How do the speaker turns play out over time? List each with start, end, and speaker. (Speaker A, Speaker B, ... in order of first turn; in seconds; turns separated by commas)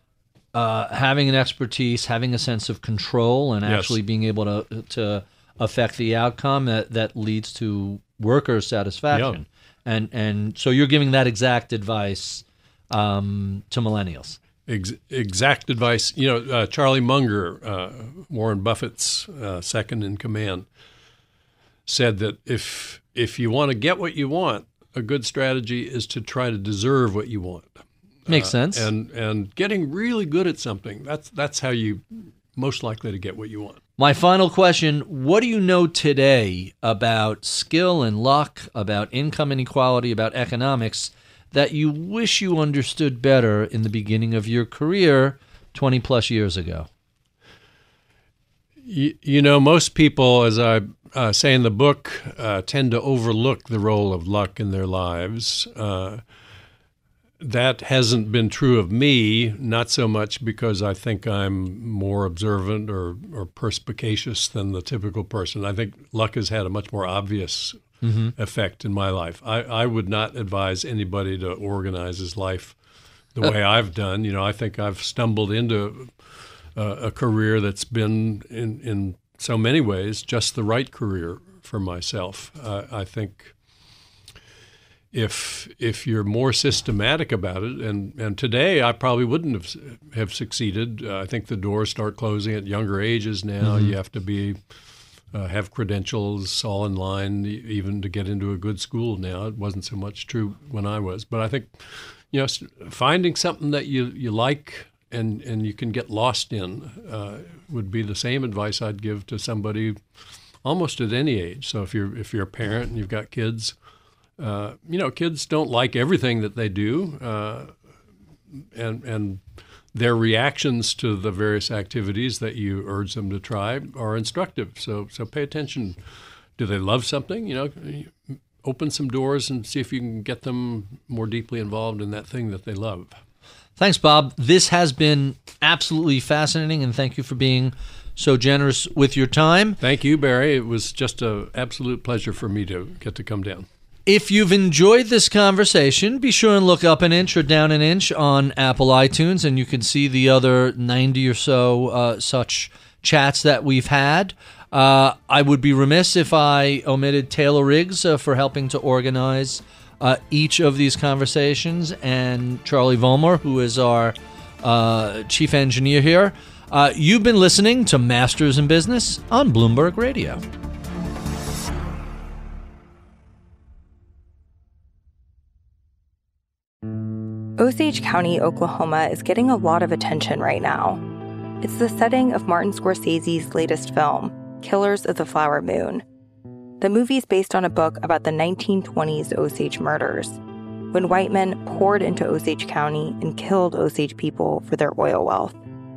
Speaker A: 0.5-14.4, Speaker B: 3.6-4.0, Speaker B: 9.1-9.4, Speaker B: 14.7-20.7, Speaker B: 21.9-33.8, Speaker A: 28.3-28.9, Speaker A: 34.0-46.9, Speaker B: 48.8-56.2, Speaker B: 57.4-67.8, Speaker A: 68.0-68.3, Speaker B: 68.4-72.8, Speaker B: 73.3-83.5, Speaker B: 85.1-94.6, Speaker A: 93.6-93.9, Speaker B: 95.3-110.0, Speaker B: 110.6-113.8, Speaker B: 114.4-117.7, Speaker B: 118.5-126.0, Speaker B: 126.6-133.2, Speaker A: 133.8-139.8, Speaker B: 139.8-143.7, Speaker A: 144.1-170.4, Speaker C: 177.6-181.0, Speaker C: 181.6-186.0, Speaker C: 186.8-190.4, Speaker C: 190.9-195.6